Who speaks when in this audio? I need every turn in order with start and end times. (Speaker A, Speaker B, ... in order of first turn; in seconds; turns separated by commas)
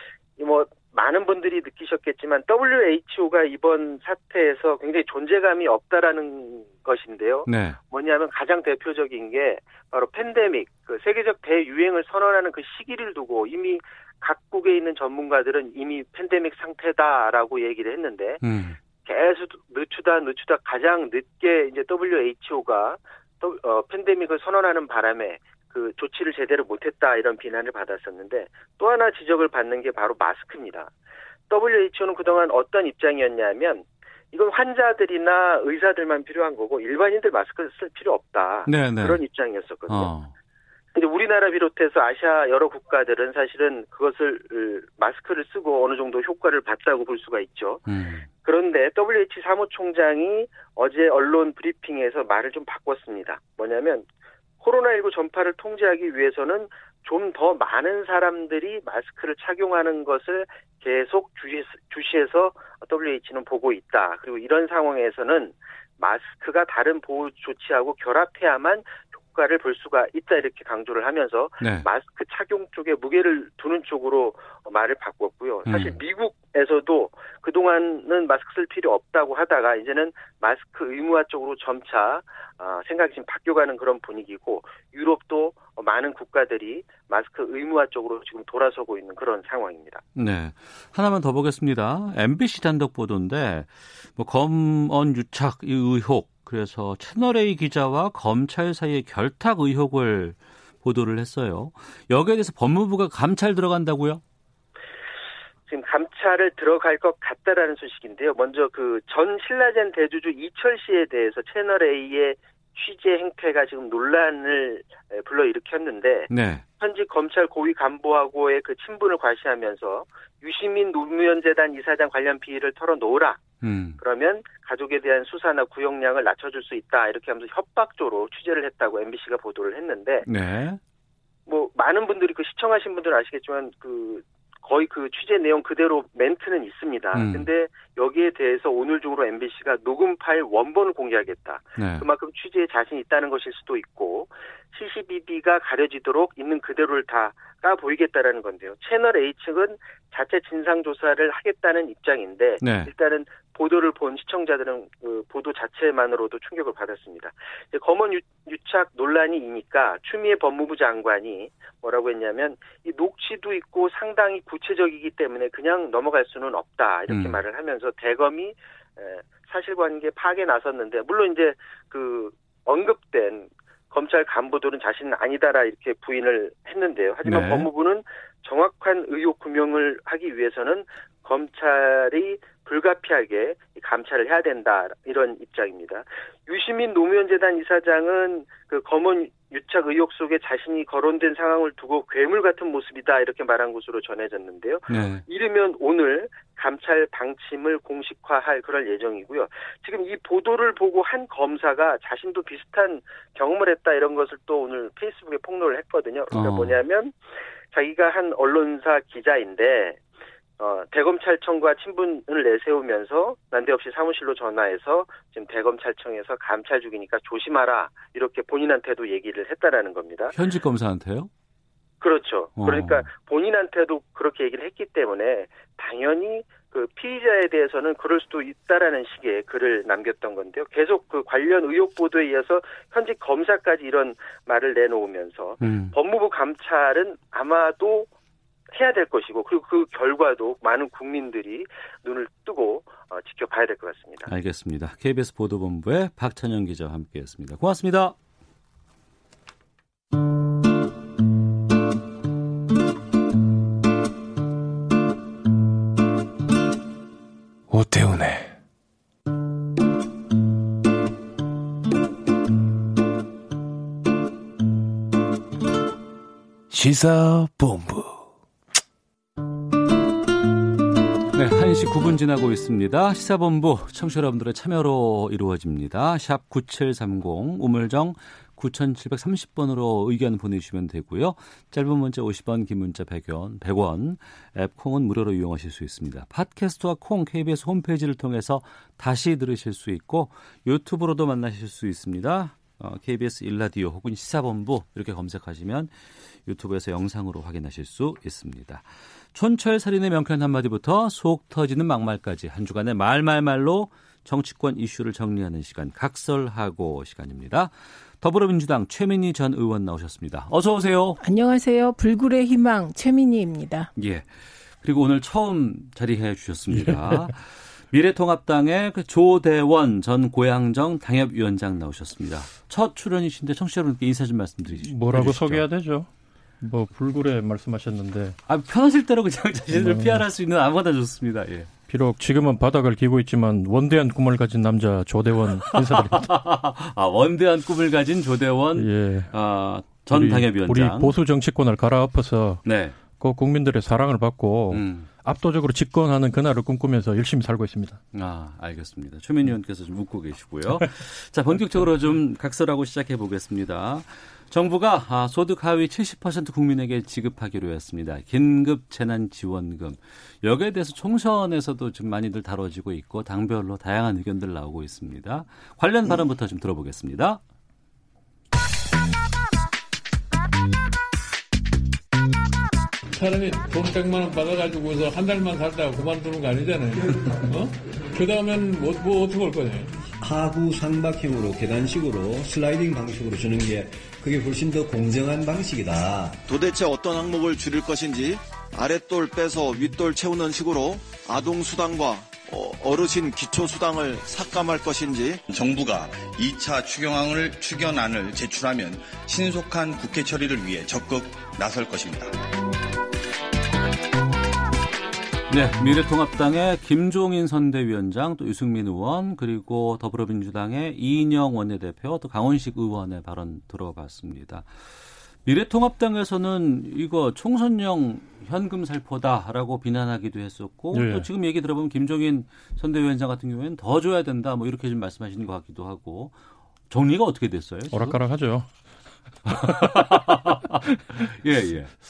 Speaker A: 0.4-18.4, Speaker B: 7.5-7.8, Speaker B: 18.4-18.8, Speaker A: 19.1-30.9, Speaker A: 31.5-40.1, Speaker B: 38.7-39.2, Speaker B: 39.9-40.3, Speaker A: 40.9-47.8, Speaker B: 47.9-48.3, Speaker A: 48.5-54.1, Speaker A: 54.6-90.0, Speaker B: 71.6-71.9, Speaker B: 75.7-76.0, Speaker B: 90.2-104.2, Speaker A: 105.7-116.3, Speaker B: 116.3-116.6, Speaker A: 116.8-123.5, Speaker B: 123.6-124.0, Speaker A: 124.0-130.3, Speaker B: 130.3-130.8, Speaker A: 131.5-207.1, Speaker B: 137.1-137.5, Speaker B: 141.8-142.1, Speaker B: 152.6-152.9, Speaker B: 167.1-167.4, Speaker B: 177.2-177.7, Speaker B: 194.9-195.2, Speaker B: 206.3-206.8, Speaker A: 207.7-210.0, Speaker A: 210.6-220.3, Speaker B: 220.3-221.3, Speaker A: 222.0-238.1, Speaker B: 222.6-223.1, Speaker B: 235.6-235.9, Speaker A: 238.7-244.3, Speaker B: 244.3-248.2, Speaker C: 257.7-258.6, Speaker C: 266.7-268.2, Speaker B: 271.3-295.9, Speaker B: 296.5-311.2, Speaker D: 311.2-313.9, Speaker B: 314.0-314.3, Speaker B: 314.8-325.6, Speaker E: 316.7-317.3, Speaker E: 324.7-326.1, Speaker E: 326.6-328.4, Speaker B: 328.5-331.7, Speaker E: 329.7-330.2, Speaker E: 331.9-336.3, Speaker B: 335.7-341.1, Speaker E: 338.8-339.3, Speaker E: 340.1-348.0, Speaker B: 342.6-343.0, Speaker B: 344.7-345.1, Speaker B: 348.1-367.4, Speaker F: 373.1-380.1, Speaker G: 380.2-386.4, Speaker H: 386.4-395.4, Speaker I: 395.5-402.3, Speaker B: 405.5-414.7, Speaker B: 415.4-426.3, Speaker E: 420.9-421.3, Speaker B: 426.9-428.2, Speaker E: 427.9-428.7, Speaker E: 429.5-430.0, Speaker B: 429.5-431.9, Speaker E: 430.9-431.3